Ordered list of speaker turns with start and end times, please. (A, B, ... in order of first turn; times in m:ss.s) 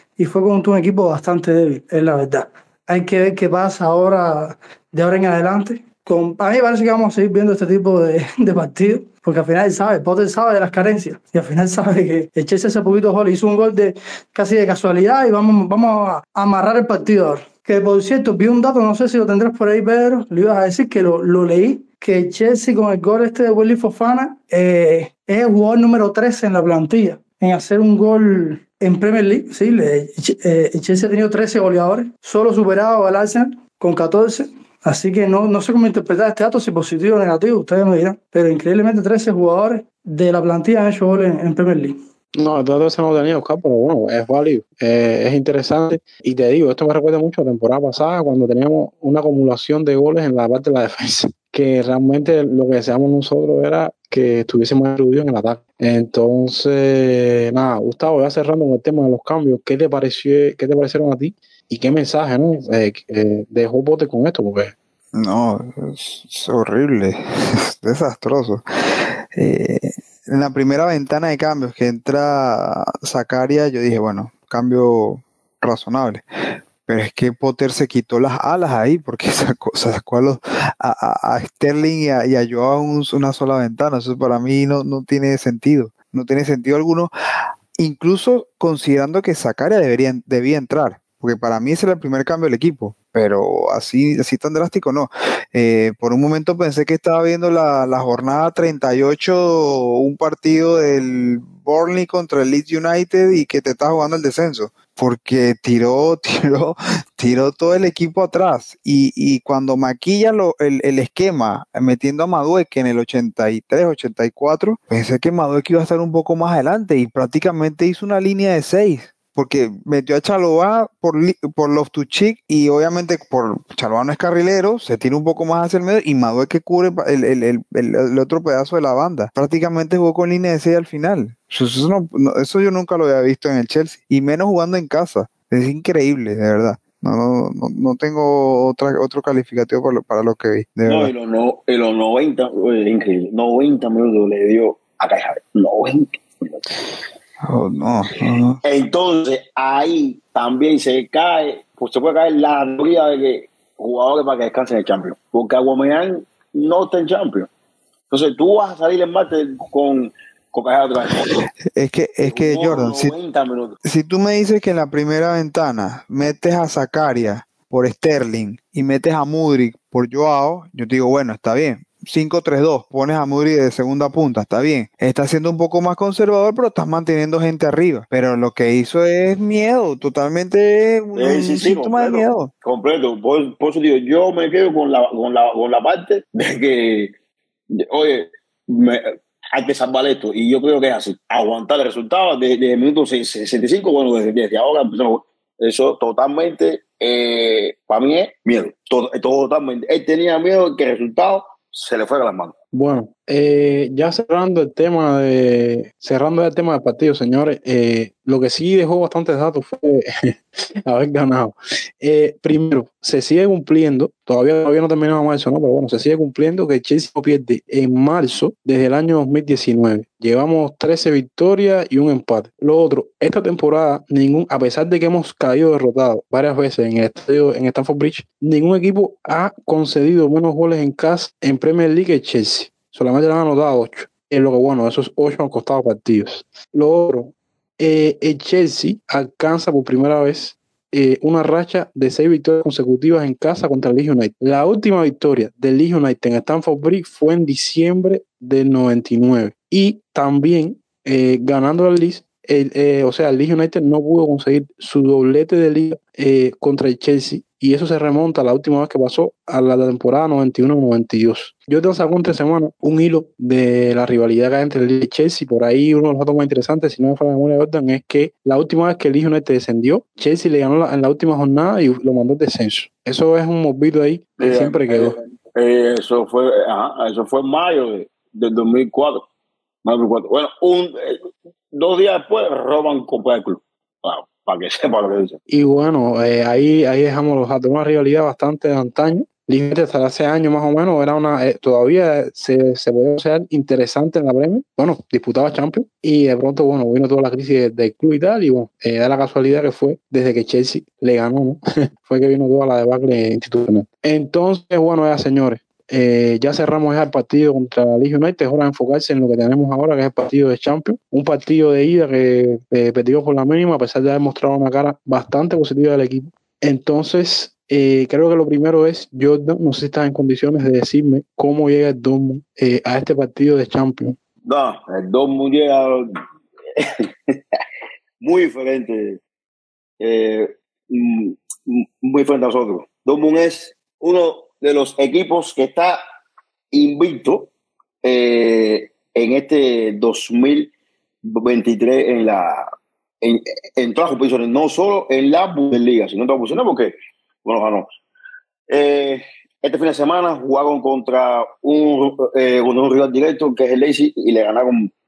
0:00.2-0:42.0 A
0:42.4-1:04.7 B
1:05.1-1:08.6 C
1:09.3-1:16.2 C
1:16.9-1:27.1 C
1:27.8-2:21.1 C
2:20.9-2:26.6 D
2:27.4-2:28.6 C
2:28.6-2:37.5 D
2:38.1-2:41.4 D
2:41.7-2:43.1 C
2:42.2-2:43.8 D
2:43.8-3:02.5 C
3:01.1-3:07.1 D
3:07.7-3:22.5 D
3:22.7-4:35.2 B
4:34.4-4:39.2 D
4:39.8-4:45.4 D
4:45.5-5:24.2 B
5:24.4-5:26.1 D
5:26.8-5:27.3 D
5:28.2-5:29.2 D
5:30.0-5:36.0 D
5:36.7-5:37.5 D
5:38.0-5:40.7 D
5:41.2-5:42.7 D
5:43.2-5:47.9 D
5:48.7-5:54.9 D